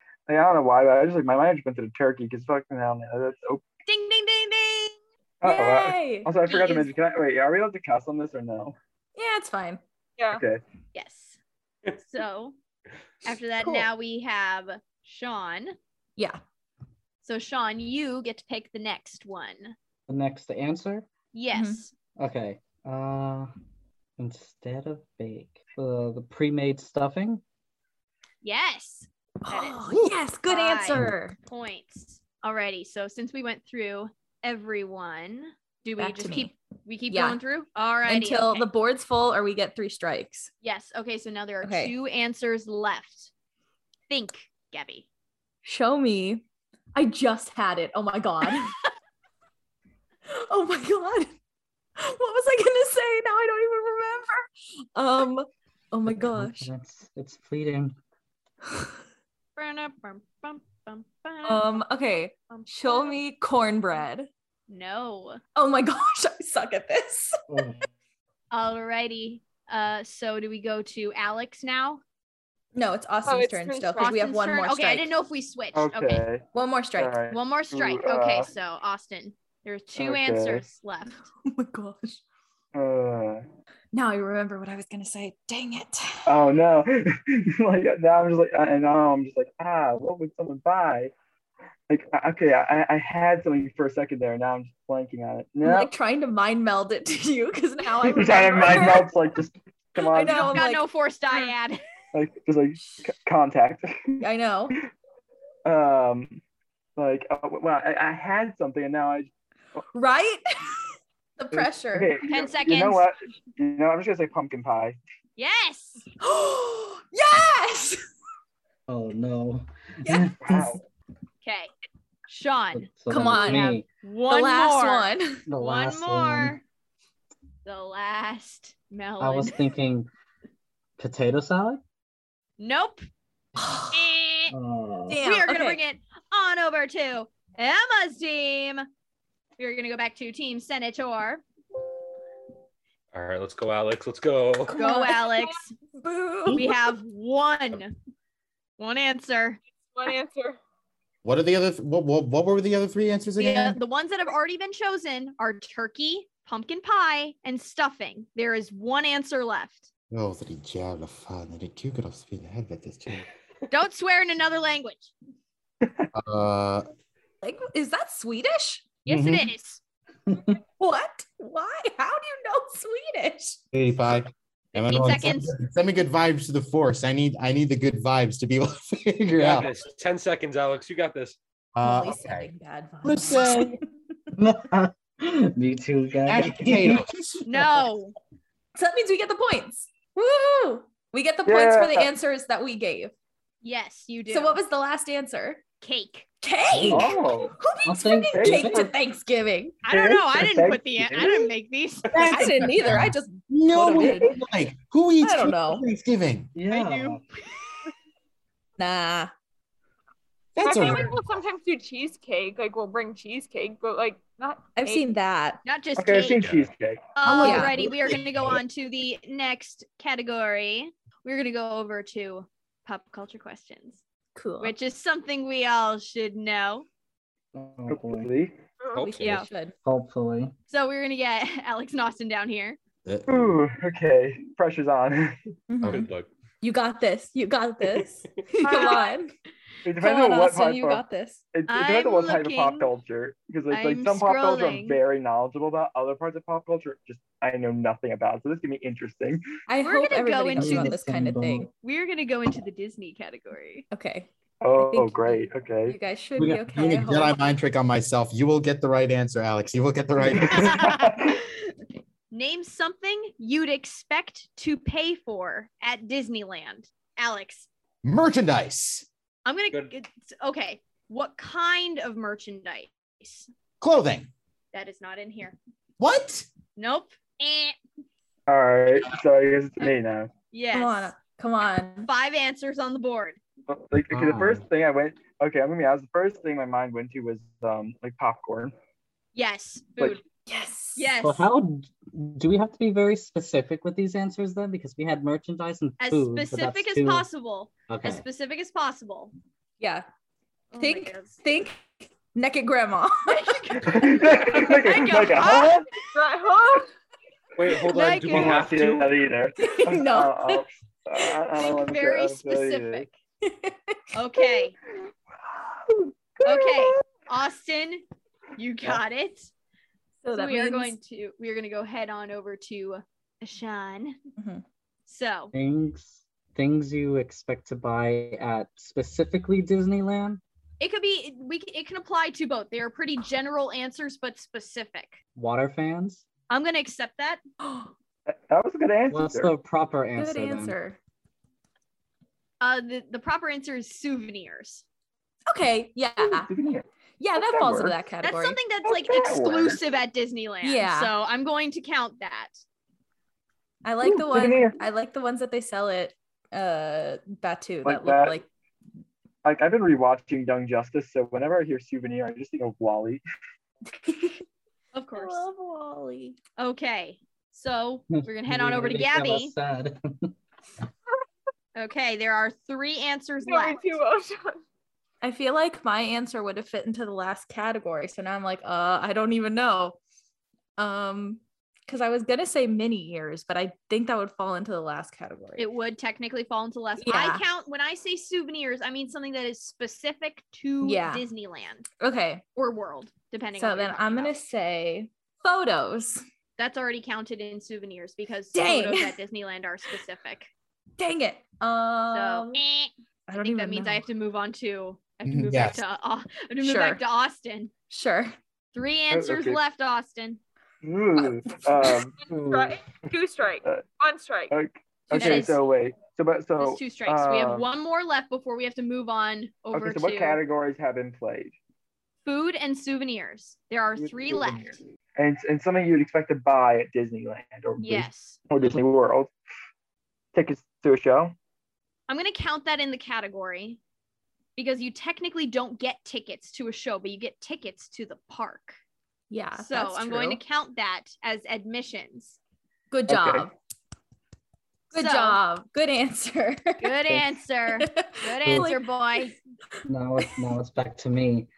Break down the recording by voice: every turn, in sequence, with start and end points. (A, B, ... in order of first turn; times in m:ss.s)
0:00.3-0:03.6 A
0:03.8-0:05.0 B
0:05.4-0:08.7 A
0:05.4-0:06.7 C
0:06.5-0:06.8 B
0:09.2-0:09.8 C
0:10.2-0:10.4 D
0:10.3-0:10.6 A
0:10.9-0:11.4 B
0:12.0-0:12.6 B
0:13.2-0:15.8 B
0:13.6-0:13.9 C
0:17.2-0:19.7 B
0:20.1-0:21.1 E
0:21.3-0:21.9 B
0:21.5-0:21.8 C
0:22.2-0:23.5 E
0:24.2-0:27.4 E
0:28.4-0:29.8 B
0:29.4-0:31.4 C
0:30.5-0:38.7 B
0:36.0-0:36.5 C
0:37.1-0:37.4 C
0:38.0-0:40.5 C
0:40.6-0:43.3 B
0:41.6-0:41.9 C
0:44.1-0:45.1 B
0:45.6-0:48.8 C
0:50.3-0:51.3 C
0:52.0-0:56.7 C
0:56.1-0:58.0 E
0:59.6-1:01.8 B
1:01.4-1:04.3 C
1:02.5-1:03.2 B
1:04.7-1:05.4 B
1:05.5-1:07.4 C
1:07.5-1:07.9 E
1:08.5-1:12.0 B
1:12.7-1:15.1 C
1:13.2-1:14.2 D
1:14.0-1:16.2 B
1:15.7-1:18.5 A
1:16.5-1:17.2 C
1:17.3-1:21.3 B
1:20.0-1:20.7 A
1:21.4-1:22.2 C
1:22.7-1:23.4 A
1:23.9-1:26.4 C
1:26.2-1:31.1 A
1:31.9-1:35.9 A
1:35.6-1:39.2 C
1:38.0-1:40.6 A
1:40.0-1:41.5 C
1:40.2-1:41.8 B
1:42.1-1:44.2 A
1:44.2-1:44.8 C
1:45.6-1:46.4 A
1:47.0-1:49.3 A
1:49.9-1:50.8 C
1:51.4-1:52.1 C
1:51.5-1:55.0 A
1:52.3-1:53.0 B
1:55.4-1:56.0 B
1:56.2-1:58.0 C
1:58.9-2:00.8 E
2:00.0-2:00.3 C
2:00.4-2:00.8 A
2:01.4-2:01.7 B
2:02.3-2:06.6 B
2:02.7-2:03.8 E
2:03.1-2:03.7 C
2:04.3-2:05.4 C
2:05.5-2:06.6 E
2:07.6-2:09.6 B
2:09.2-2:10.1 E
2:11.0-2:11.8 E
2:12.6-2:13.0 B
2:13.6-2:14.0 C
2:13.9-2:14.5 B
2:14.5-2:15.2 E
2:15.1-2:15.8 C
2:15.2-2:18.9 B
2:19.6-2:21.4 B
2:23.1-2:24.7 F
2:24.6-2:26.8 C
2:24.7-2:25.7 B
2:26.5-2:27.9 B
2:28.8-2:29.6 B
2:29.9-2:30.6 D
2:31.2-2:33.8 G
2:33.4-2:39.9 B
2:40.1-2:43.3 G
2:43.7-2:45.1 B
2:46.1-2:46.9 G
2:47.4-2:48.9 C
2:49.0-2:49.8 B
2:49.1-2:49.5 G
2:50.8-2:53.6 C
2:53.7-2:59.7 G
2:54.7-2:55.6 B
2:59.4-3:01.4 F
3:01.7-3:02.5 G
3:01.8-3:03.8 C
3:03.0-3:03.8 G
3:04.4-3:07.1 E
3:06.2-3:07.4 G
3:07.4-3:08.1 B
3:08.7-3:13.1 C
3:11.4-3:12.1 A
3:13.6-3:14.6 B
3:14.3-3:15.6 C
3:15.8-3:16.3 B
3:16.4-3:19.8 C
3:16.7-3:17.1 E
3:16.9-3:17.6 A
3:17.8-3:18.8 E
3:18.3-3:18.9 A
3:19.8-3:22.3 B
3:19.9-3:21.3 A
3:22.1-3:26.5 G
3:22.2-3:24.4 C
3:25.2-3:25.8 C
3:26.5-3:27.2 E
3:26.7-3:27.2 B
3:28.8-3:29.3 C
3:30.6-3:31.2 G
3:30.6-3:35.1 D
3:34.8-3:35.6 C
3:35.6-3:36.4 B
3:36.0-3:37.1 A
3:36.4-3:36.7 F
3:37.2-3:44.0 B
3:37.2-3:38.6 G
3:37.4-3:37.7 C
3:44.4-3:44.7 C
3:44.6-3:46.8 B
3:47.5-3:48.3 E
3:47.9-3:48.5 A
3:48.8-3:49.1 D
3:48.9-3:49.4 F
3:49.0-3:49.8 C
3:49.2-3:49.5 B
3:49.8-3:50.5 E
3:50.7-3:52.8 B
3:53.0-3:53.6 G
3:53.3-3:55.4 A
3:55.7-3:56.1 C
3:55.8-3:56.1 G
3:55.8-3:56.3 F
3:56.6-3:59.3 C
3:58.7-3:59.0 D
3:59.8-4:09.4 A
4:00.0-4:01.4 C
4:01.7-4:02.9 B
4:03.7-4:05.0 B
4:09.7-4:11.7 C
4:09.8-4:11.0 B
4:10.6-4:11.7 E
4:11.8-4:13.8 B
4:13.9-4:17.4 C
4:14.6-4:16.0 A
4:16.4-4:17.3 E
4:17.0-4:20.9 G
4:20.3-4:21.4 A
4:20.4-4:21.4 B
4:22.3-4:27.7 B
4:28.0-4:29.1 G
4:29.4-4:33.5 B
4:33.8-4:34.3 G
4:34.7-4:35.6 B
4:36.0-4:36.5 G
4:36.8-4:37.8 B
4:38.5-4:40.3 A
4:40.5-4:41.1 B
4:40.7-4:42.1 C
4:42.0-4:43.4 B
4:43.7-4:48.7 A
4:44.1-4:44.6 E
4:49.3-4:50.2 B
4:50.5-4:51.1 C
4:51.0-4:51.5 B
4:51.2-4:57.3 E
4:56.0-4:59.3 B
4:57.9-4:58.2 E
4:59.8-5:00.0 C
5:00.7-5:01.4 B
5:00.8-5:03.7 C
5:03.3-5:05.9 B
5:03.8-5:05.9 A
5:06.1-5:06.9 D
5:07.6-5:09.2 F
5:07.9-5:08.6 B
5:08.3-5:13.1 A
5:09.6-5:10.6 C
5:11.6-5:13.1 B
5:13.4-5:14.6 C
5:14.1-5:14.8 B
5:15.9-5:16.9 A
5:16.4-5:18.0 B
5:18.6-5:19.5 B
5:20.2-5:20.9 C
5:20.3-5:24.2 B
5:24.4-5:24.6 C
5:25.1-5:25.5 B
5:25.5-5:30.4 E
5:30.8-5:35.2 B
5:35.4-5:36.2 E
5:36.5-5:37.4 B
5:37.6-5:37.9 C
5:38.3-5:39.5 A
5:39.1-5:40.8 E
5:40.1-5:41.0 C
5:42.6-5:44.8 B
5:45.5-5:46.5 C
5:46.2-5:46.8 A
5:47.2-5:48.6 C
5:47.4-5:47.9 A
5:48.2-5:52.6 B
5:48.8-5:49.8 A
5:50.6-5:51.1 C
5:53.8-5:58.4 C
5:54.0-5:54.8 A
5:57.8-5:58.4 A
5:59.4-6:03.2 A
6:04.0-6:04.4 C
6:04.9-6:05.5 B
6:05.1-6:06.4 C
6:06.6-6:09.5 B
6:08.1-6:10.3 E
6:11.8-6:14.0 B
6:13.4-6:14.6 D
6:15.2-6:20.0 C
6:20.8-6:25.6 C
6:25.6-6:31.9 B
6:27.0-6:27.4 C
6:30.8-6:31.2 C
6:32.0-6:32.4 C
6:32.6-6:34.4 B
6:33.6-6:36.2 C
6:36.6-6:40.5 B
6:38.5-6:39.2 C
6:41.0-6:42.6 C
6:42.1-6:47.7 B
6:43.3-6:44.0 C
6:45.2-6:45.8 G
6:46.6-6:47.0 C
6:47.9-6:48.3 C
6:48.7-6:50.4 B
6:49.1-6:49.6 A
6:50.8-6:52.1 A
6:51.2-6:51.7 C
6:52.3-6:52.8 E
6:52.3-6:54.5 D
6:54.5-6:57.7 A
6:55.1-6:55.6 B
6:55.1-6:55.5 C
6:56.6-7:00.4 B
6:59.7-7:01.6 A
7:02.2-7:04.8 B
7:04.0-7:09.3 A
7:07.8-7:08.4 B
7:10.3-7:11.3 A
7:12.1-7:13.8 B
7:14.6-7:18.8 B
7:19.3-7:20.4 C
7:19.6-7:22.4 B
7:22.9-7:23.5 C
7:23.1-7:23.5 A
7:24.9-7:29.3 C
7:24.9-7:25.4 B
7:26.8-7:29.4 B
7:28.4-7:28.7 E
7:29.8-7:31.5 E